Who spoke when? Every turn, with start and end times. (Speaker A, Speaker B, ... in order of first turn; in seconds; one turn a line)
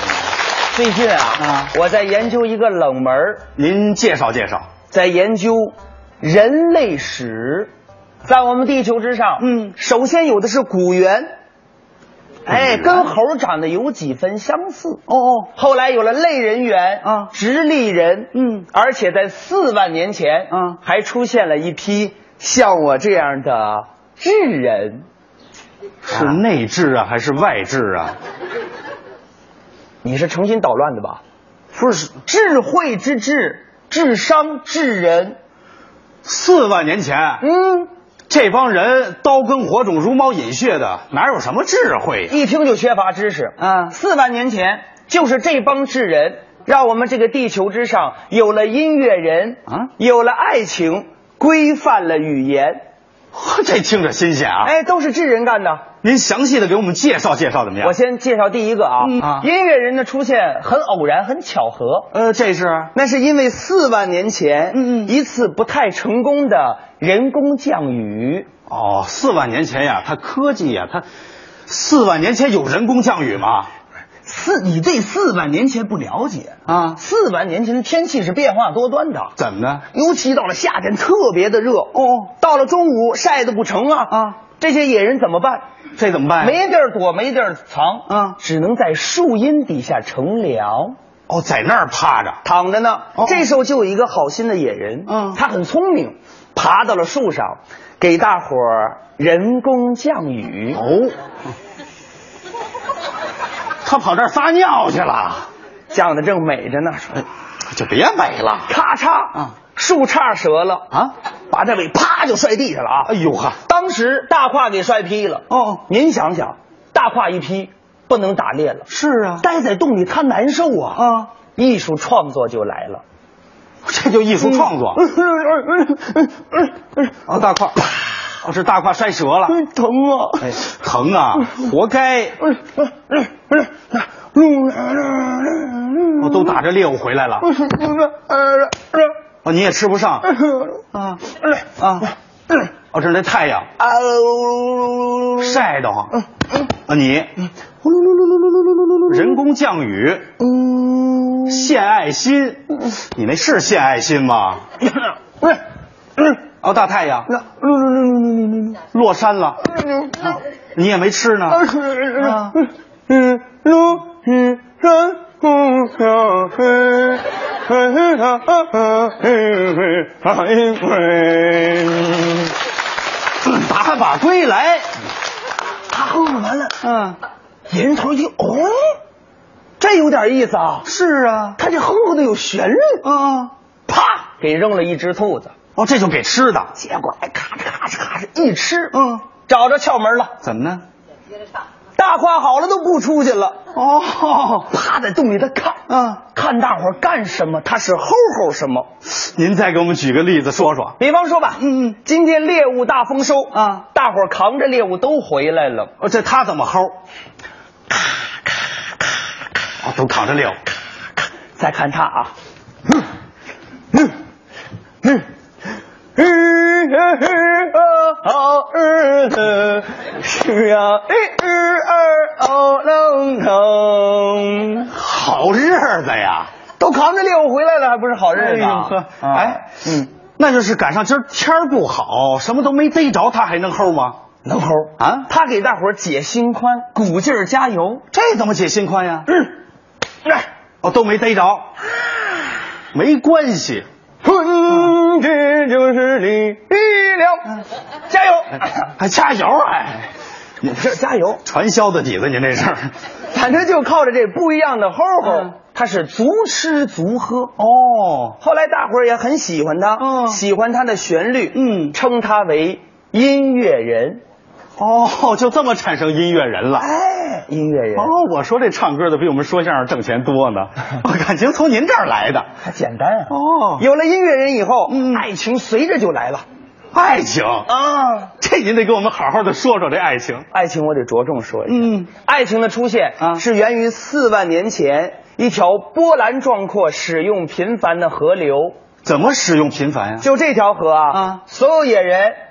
Speaker A: 0.7-3.4
Speaker B: 1.4-1.7
Speaker B: 3.5-4.6
Speaker A: 4.9-7.7
Speaker A: 8.2-11.3
Speaker B: 9.4-9.7
Speaker A: 12.4-25.0
Speaker B: 12.5-13.1
Speaker B: 15.1-15.5
Speaker B: 17.0-17.3
Speaker B: 18.3-18.7
Speaker B: 20.5-20.8
Speaker B: 26.1-28.2
Speaker A: 26.1-26.4
Speaker A: 30.0-31.2
Speaker B: 31.7-32.2
Speaker A: 32.2-35.4
Speaker B: 36.2-37.4
Speaker A: 37.4-37.9
Speaker B: 38.3-42.3
Speaker A: 42.3-52.8
Speaker B: 43.6-43.9
Speaker B: 53.3-54.7
Speaker A: 54.6-55.8
Speaker B: 56.0-57.9
Speaker A: 57.8-62.1
Speaker B: 59.0-59.5
Speaker B: 62.1-62.9
Speaker A: 62.9-68.5
Speaker B: 64.7-65.1
Speaker B: 68.7-71.0
Speaker B: 71.7-73.7
Speaker A: 74.2-79.3
Speaker B: 76.7-77.0
Speaker B: 79.4-79.8
Speaker A: 79.9-85.6
Speaker B: 81.9-82.3
Speaker B: 84.1-84.3
Speaker B: 86.0-86.6
Speaker A: 86.4-90.9
Speaker B: 88.1-88.4
Speaker B: 91.3-92.4
Speaker A: 92.4-100.8
Speaker B: 93.1-93.5
Speaker B: 95.1-95.4
Speaker B: 100.7-101.1
Speaker B: 103.8-105.5
Speaker A: 105.9-107.2
Speaker B: 107.7-108.7
Speaker A: 108.7-110.9
Speaker A: 111.5-113.1
Speaker B: 113.0-113.6
Speaker A: 113.6-118.9
Speaker B: 115.5-115.8
Speaker B: 118.9-119.4
Speaker A: 119.4-123.0
Speaker B: 120.9-121.3
Speaker B: 123.8-125.0
Speaker A: 124.4-127.0
Speaker B: 127.2-129.6
Speaker A: 129.5-130.6
Speaker B: 130.4-132.4
Speaker A: 132.4-136.6
Speaker B: 136.2-137.5
Speaker A: 137.4-139.1
Speaker B: 139.4-140.3
Speaker A: 140.3-140.8
Speaker B: 140.9-141.2
Speaker B: 141.8-142.1
Speaker B: 142.9-143.7
Speaker A: 143.8-145.6
Speaker B: 145.4-146.2
Speaker B: 146.7-147.3
Speaker A: 147.8-149.1
Speaker B: 149.1-150.3
Speaker A: 150.4-151.7
Speaker B: 151.5-154.6
Speaker A: 155.0-155.6
Speaker B: 156.6-157.3
Speaker A: 157.3-158.8
Speaker B: 158.9-159.7
Speaker A: 159.9-160.3
Speaker B: 160.7-162.5
Speaker A: 161.5-172.5
Speaker B: 173.4-174.9
Speaker A: 175.9-176.8
Speaker B: 176.8-177.2
Speaker A: 177.7-179.0
Speaker A: 179.8-180.9
Speaker B: 180.8-181.6
Speaker A: 181.6-183.0
Speaker B: 183.0-183.5
Speaker A: 183.9-185.5
Speaker B: 185.8-186.7
Speaker A: 186.8-190.3
Speaker B: 188.9-189.2
Speaker B: 190.4-190.8
Speaker A: 191.9-193.6
Speaker B: 193.7-194.7
Speaker A: 194.7-198.9
Speaker B: 195.9-196.2
Speaker B: 199.1-201.0
Speaker A: 201.0-205.9
Speaker B: 201.6-202.0
Speaker B: 203.5-203.8
Speaker B: 206.0-206.9
Speaker B: 209.8-210.6
Speaker A: 211.6-212.3
Speaker A: 216.2-224.9
Speaker B: 224.9-226.5
Speaker A: 226.8-230.1
Speaker B: 228.3-229.6
Speaker B: 230.4-234.2
Speaker A: 234.4-238.0
Speaker B: 235.0-235.3
Speaker B: 238.1-239.3
Speaker B: 240.8-241.7
Speaker B: 242.9-243.9
Speaker A: 244.2-248.8
Speaker B: 249.0-250.1
Speaker A: 250.6-251.4
Speaker B: 251.4-252.9
Speaker A: 253.3-257.5
Speaker B: 257.6-258.4
Speaker A: 258.4-264.2
Speaker B: 260.0-260.4
Speaker B: 261.5-261.9
Speaker B: 264.8-266.9
Speaker A: 266.8-268.1
Speaker B: 267.9-272.5
Speaker A: 272.6-276.4
Speaker B: 273.3-273.8
Speaker B: 274.9-275.2
Speaker B: 276.9-277.7
Speaker A: 277.7-278.3
Speaker B: 278.4-280.4
Speaker A: 280.5-288.8
Speaker B: 281.7-282.1
Speaker B: 289.0-290.2
Speaker A: 290.2-292.4
Speaker B: 291.1-291.4